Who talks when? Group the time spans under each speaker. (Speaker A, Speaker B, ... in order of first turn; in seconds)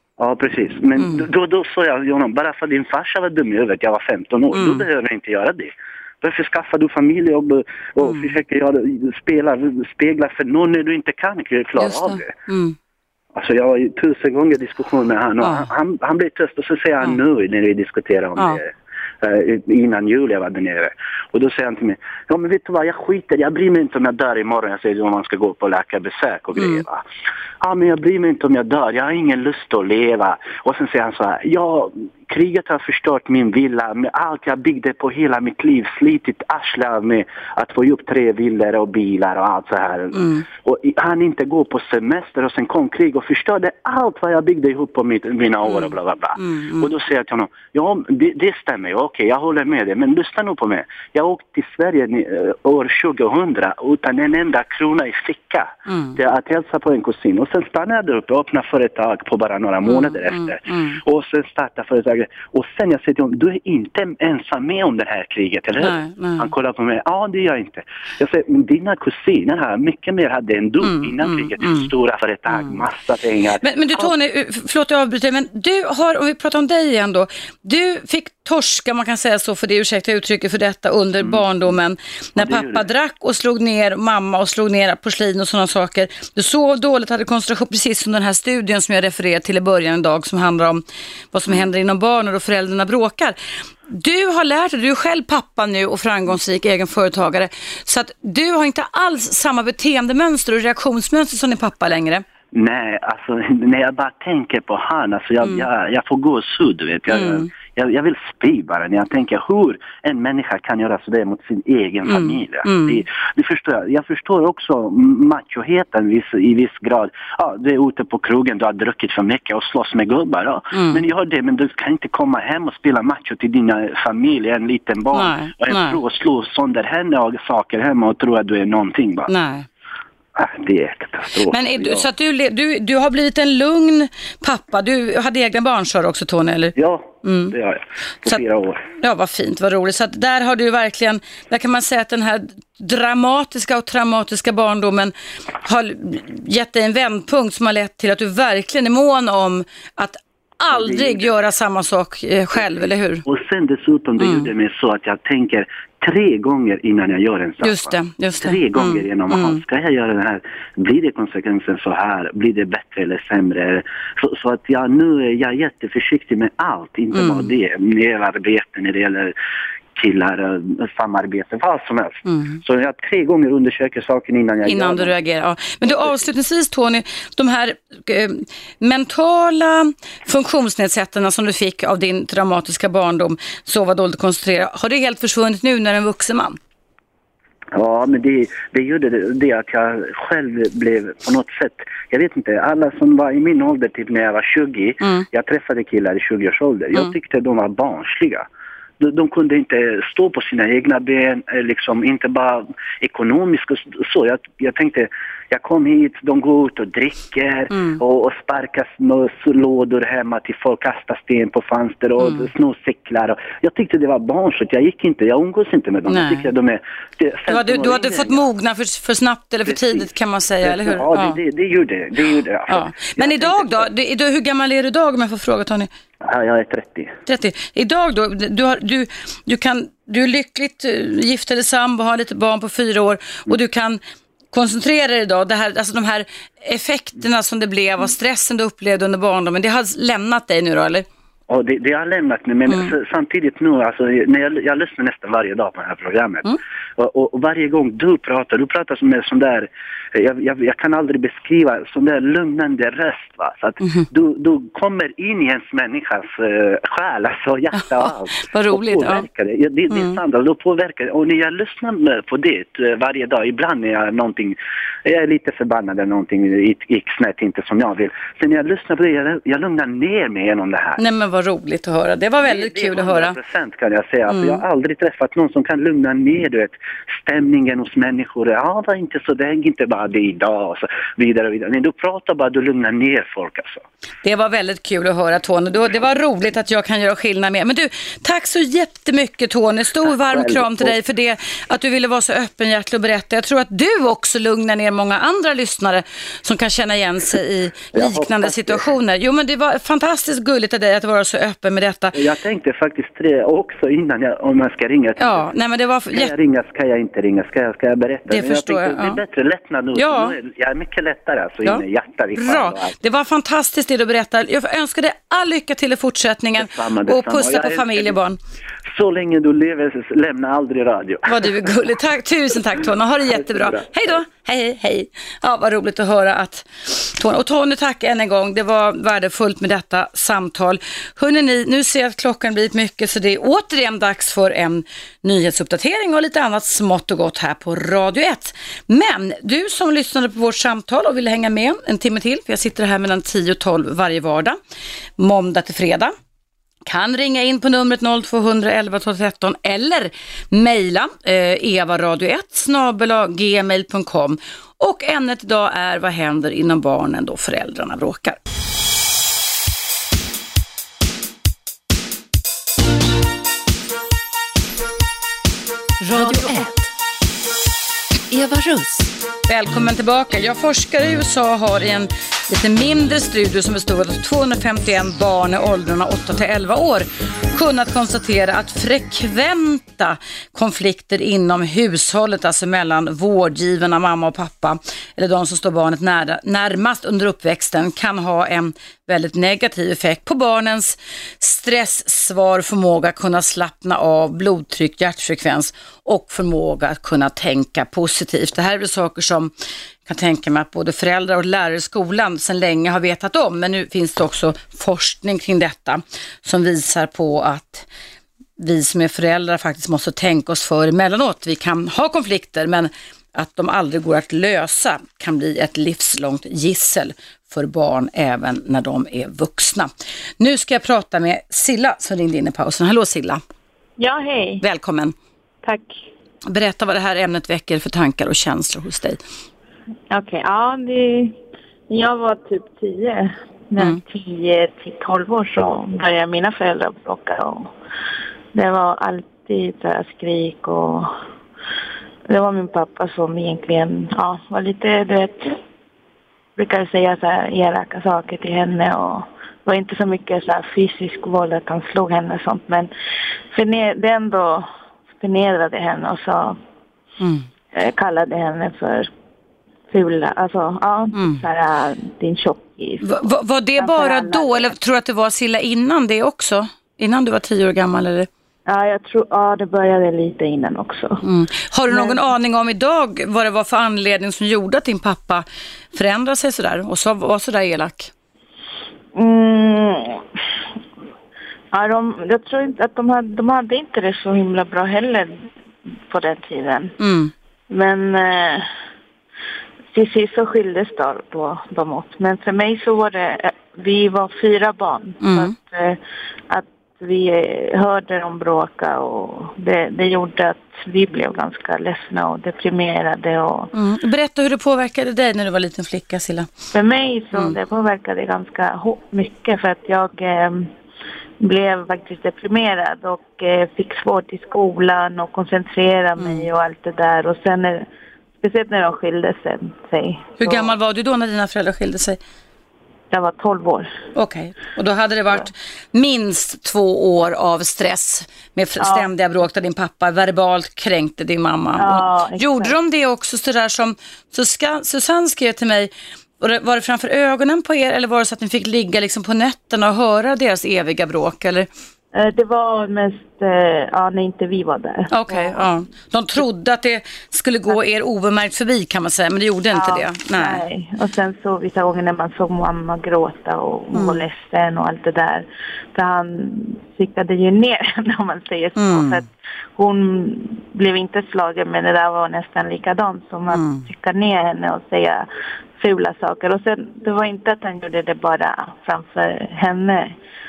Speaker A: 0.2-12.3, 13.3-18.7, 19.2-27.0, 27.6-74.1, 81.2-81.5, 82.4-82.9, 102.5-129.3, 130.3-132.0, 136.8-138.8, 150.7-151.4, 153.2-169.3, 169.9-175.1, 175.8-176.1, 187.7-198.4, 199.0-218.4, 219.7-220.0, 220.6-223.9, 226.2-227.2, 241.5-271.0, 272.4-283.8, 290.2-290.9, 297.9-298.8, 302.1-305.4, 306.1-312.9, 316.6-318.1, 318.9-321.7, 323.4-323.9
Speaker B: 1.0-1.2, 4.5-4.8, 8.0-8.3, 11.8-12.8, 15.4-15.7, 26.6-26.8, 40.1-40.4, 45.6-46.9, 55.9-56.2, 59.8-61.0, 65.8-66.5, 70.8-71.9, 73.6-102.2, 107.1-107.5, 112.1-113.0, 120.7-121.0, 125.1-126.0, 129.3-129.7, 131.5-137.5, 138.9-153.2, 154.2-154.5, 157.6-159.6, 167.1-167.5, 172.3-172.6, 174.6-186.6, 207.7-208.0, 212.2-212.5, 216.1-216.5, 217.5-221.4, 222.7-225.9, 227.2-234.0, 234.5-241.1, 257.8-259.2, 259.9-260.2, 271.0-273.4, 274.3-274.6, 284.2-302.1, 305.2-306.3, 308.3-309.2, 309.9-310.3, 312.3-318.4, 321.2-344.6, 345.2-346.1, 346.8-358.4, 366.0-366.7, 369.5-399.5, 400.1-407.9, 408.6-423.4, 424.6-425.1, 426.4-429.2, 457.2-457.5, 461.1-461.4, 463.0-468.3, 471.2-478.1, 487.0-487.3, 495.2-495.5, 503.7-506.5, 516.2-516.5, 520.4-522.2, 524.1-541.7, 545.1-550.6, 553.9-554.2, 558.8-559.2, 563.5-563.9
Speaker C: 366.2-366.8, 368.3-368.6, 424.0-424.6, 425.6-426.0, 430.1-431.4, 431.9-437.7, 438.5-441.1, 442.3-445.6, 446.6-452.9, 453.5-456.6, 457.7-459.1, 459.9-463.3, 463.8-464.7, 468.6-471.2, 471.9-472.2, 479.1-480.3, 481.7-485.5, 486.0-486.9, 487.7-488.7, 489.9-503.7, 506.7-510.7, 511.4-520.7, 523.1-523.9, 528.8-529.1, 531.8-532.7, 542.1-545.7, 549.7-565.3, 565.8-570.1